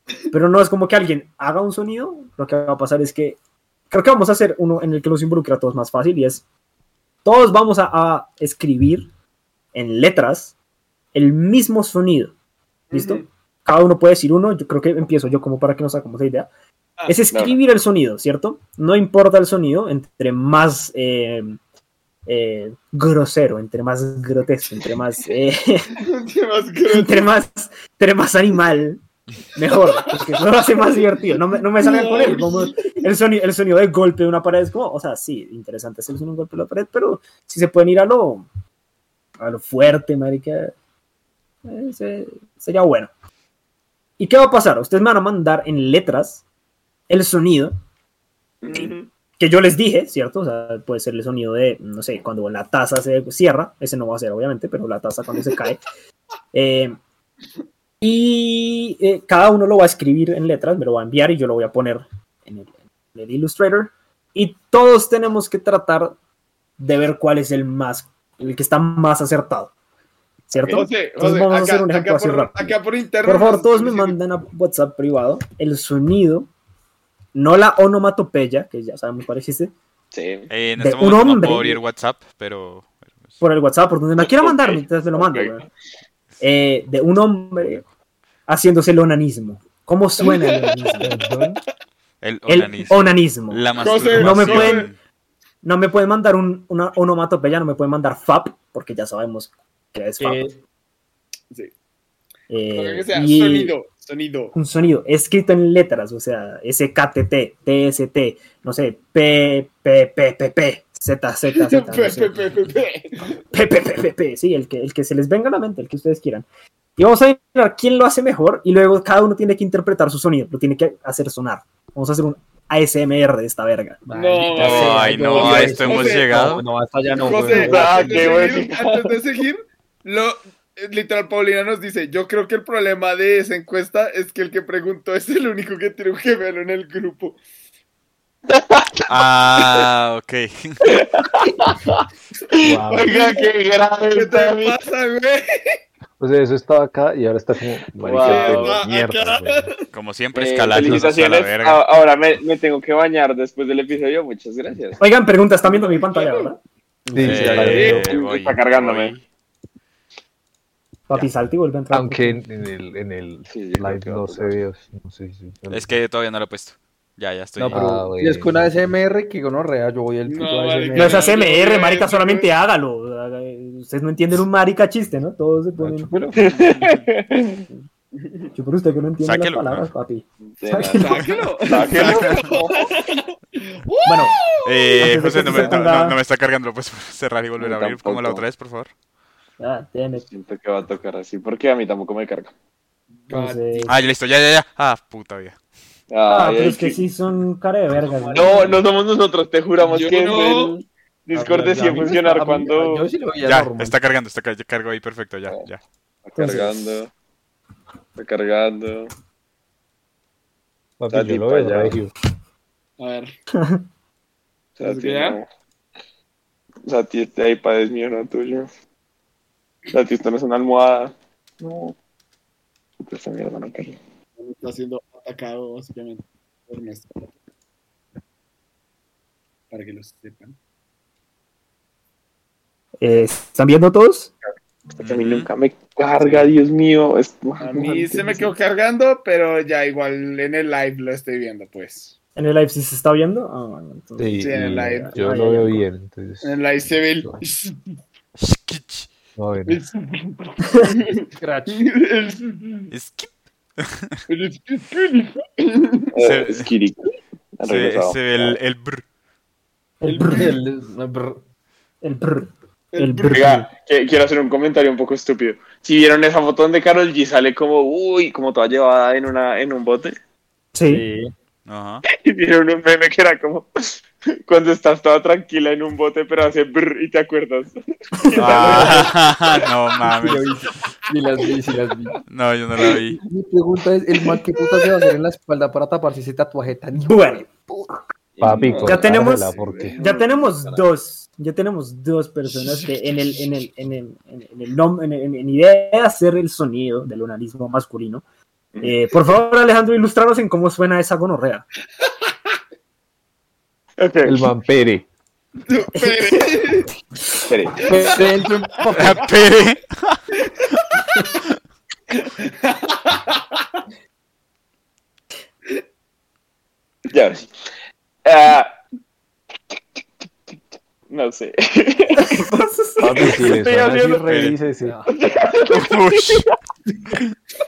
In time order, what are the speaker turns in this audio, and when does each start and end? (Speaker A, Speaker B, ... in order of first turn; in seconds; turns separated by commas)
Speaker A: 0.3-3.4, Speaker A: 3.9-6.4, Speaker A: 7.2-9.1, Speaker A: 9.7-10.5, Speaker A: 11.1-12.3, Speaker B: 12.9-13.3, Speaker A: 12.9-16.5, Speaker A: 17.1-21.6, Speaker C: 17.3-17.6, Speaker A: 22.2-25.9, Speaker B: 26.0-27.3, Speaker A: 26.9-29.0, Speaker A: 29.5-38.5, Speaker B: 29.7-30.2, Speaker B: 31.7-33.0, Speaker A: 39.4-40.7, Speaker A: 41.6-43.1, Speaker A: 44.2-46.4, Speaker A: 47.1-47.8, Speaker C: 48.6-49.1, Speaker A: 48.7-55.8, Speaker A: 56.5-57.0, Speaker A: 58.0-66.2, Speaker A: 66.8-69.7, Speaker A: 70.5-76.5, Speaker C: 70.6-70.8, Speaker B: 70.7-74.2, Speaker A: 77.3-79.7, Speaker C: 80.1-80.5, Speaker D: 80.5-82.9, Speaker A: 80.8-81.8, Speaker A: 83.4-85.6, Speaker C: 84.3-85.6, Speaker A: 86.4-87.8, Speaker A: 88.5-91.2, Speaker B: 90.2-91.2, Speaker E: 91.0-91.6, Speaker D: 92.2-95.0, Speaker A: 92.5-94.9, Speaker B: 93.7-94.9, Speaker A: 95.6-100.5, Speaker F: 100.2-100.5, Speaker A: 102.5-103.7, Speaker B: 102.7-104.5, Speaker A: 104.5-112.5, Speaker B: 111.5-113.3, Speaker A: 113.5-116.5, Speaker A: 117.0-124.0, Speaker F: 124.0-128.6, Speaker B: 124.2-126.6, Speaker D: 124.6-126.7, Speaker B: 127.2-137.4, Speaker C: 127.4-129.1, Speaker C: 138.5-139.1, Speaker D: 139.1-140.9, Speaker C: 140.8-144.8, Speaker E: 142.6-143.1, Speaker B: 142.9-143.5, Speaker B: 144.1-145.8, Speaker E: 146.2-149.7, Speaker C: 148.0-148.8, Speaker B: 148.2-149.8, Speaker D: 149.9-151.8, Speaker C: 150.3-155.0, Speaker A: 155.0-157.8, Speaker B: 155.6-156.6, Speaker E: 157.1-158.2, Speaker D: 157.2-159.2, Speaker B: 157.6-158.1, Speaker C: 157.8-159.1, Speaker A: 161.1-162.4, Speaker E: 161.9-165.9, Speaker C: 163.5-164.6, Speaker D: 165.7-167.8, Speaker F: 167.6-171.3, Speaker E: 167.7-168.7, Speaker B: 170.2-172.5, Speaker A: 170.9-176.1, Speaker F: 175.8-176.7, Speaker E: 175.9-176.4, Speaker C: 176.4-177.6, Speaker A: 178.5-181.1, Speaker D: 179.2-179.9, Speaker C: 180.6-183.1, Speaker B: 180.9-185.8, Speaker D: 180.9-182.4, Speaker A: 184.0-184.3, Speaker D: 184.6-188.9, Speaker A: 185.0-186.2, Speaker C: 187.6-188.4, Speaker A: 189.6-190.2, Speaker C: 190.1-192.5, Speaker B: 193.2-194.0, Speaker A: 193.3-193.9, Speaker D: 193.9-195.5, Speaker C: 196.1-197.0, Speaker A: 196.2-198.8, Speaker F: 198.1-198.7, Speaker C: 198.3-203.1, Speaker B: 199.8-200.7, Speaker F: 201.3-204.0, Speaker D: 203.4-205.8, Speaker C: 206.2-207.1, Speaker A: 206.3-206.8, Speaker C: 208.2-209.1, Speaker E: 211.0-212.1, Speaker C: 211.1-212.0, Speaker B: 213.0-213.3, Speaker A: 213.6-213.8, Speaker C: 214.8-215.4, Speaker B: 214.8-215.4, Speaker C: 216.8-218.7, Speaker C: 219.9-221.9, Speaker C: 223.0-224.0, Speaker B: 224.4-227.2, Speaker B: 229.7-230.6, Speaker A: 233.0-234.3, Speaker D: 235.0-235.5, Speaker C: 235.0-238.0, Speaker B: 237.6-242.1, Speaker A: 238.0-238.5, Speaker A: 242.3-245.8, Speaker E: 244.2-246.6, Speaker B: 244.4-245.2, Speaker B: 246.4-247.8, Speaker D: 248.4-249.1, Speaker E: 249.3-249.8, Speaker B: 249.7-252.9, Speaker F: 251.4-251.8, Speaker D: 252.9-254.2, Speaker B: 254.3-256.1, Speaker C: 256.1-258.6, Speaker D: 256.2-256.7, Speaker D: 257.6-259.0, Speaker A: 260.0-260.5, Speaker F: 260.1-261.4, Speaker A: 262.0-263.7, Speaker B: 262.9-263.5, Speaker C: 263.3-270.1, Speaker A: 270.7-271.0, Speaker F: 270.9-271.3, Speaker D: 271.7-272.0, Speaker C: 272.1-279.1, Speaker D: 278.3-280.5, Speaker F: 278.5-279.0, Speaker F: 280.0-282.2, Speaker D: 282.3-283.2, Speaker F: 282.9-287.5, Speaker B: 284.3-284.8, Speaker A: 287.0-287.4, Speaker C: 288.4-290.8, Speaker E: 288.4-290.0, Speaker B: 288.6-290.0, Speaker A: 288.9-298.2, Speaker B: 292.6-293.1, Speaker A: 298.8-301.6, Speaker C: 304.0-304.5, Speaker E: 304.2-305.1, Speaker B: 305.7-306.9, Speaker A: 305.9-306.4, Speaker C: 307.5-307.9, Speaker F: 307.8-309.2, Speaker B: 307.9-308.3, Speaker D: 308.9-310.2, Speaker B: 312.1-313.6, Speaker C: 317.1-317.5, Speaker C: 318.2-318.7, Speaker C: 321.1-322.5, Speaker A: 322.2-323.3, Speaker C: 323.0-324.3, Speaker E: 323.0-325.0, Speaker D: 324.3-324.6, Speaker F: 324.8-325.1, Speaker C: 325.1-326.5, Speaker D: 325.7-326.5